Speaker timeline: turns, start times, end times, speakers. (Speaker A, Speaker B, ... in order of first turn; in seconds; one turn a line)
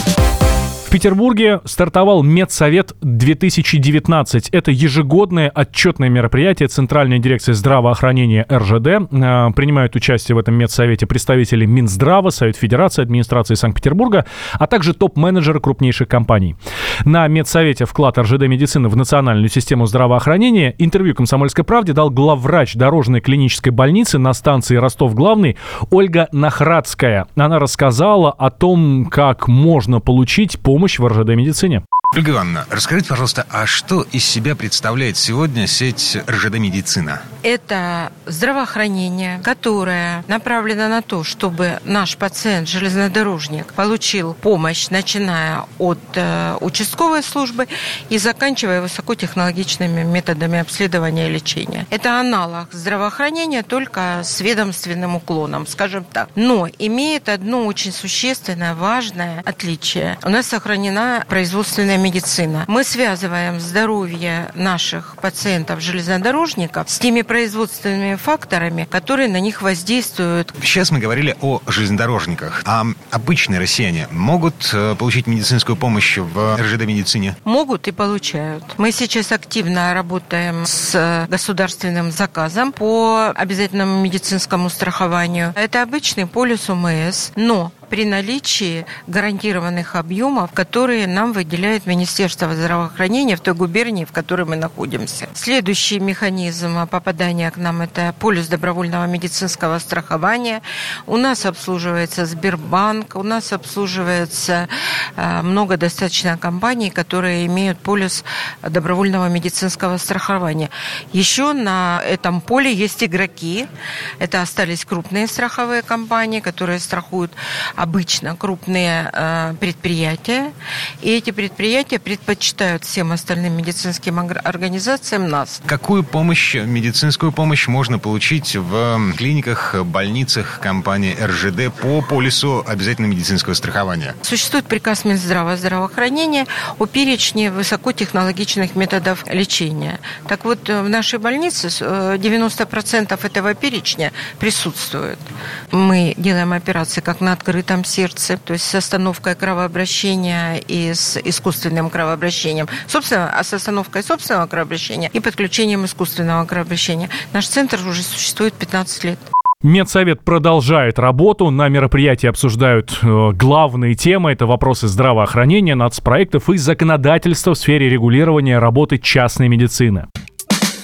Speaker A: 0.8-31.8
Speaker B: 32.1-37.2
Speaker C: 37.4-70.6
Speaker B: 70.6-77.4
Speaker C: 77.4-125.6
Speaker B: 125.7-134.2
Speaker C: 134.2-159.2
Speaker A: 159.6-170.1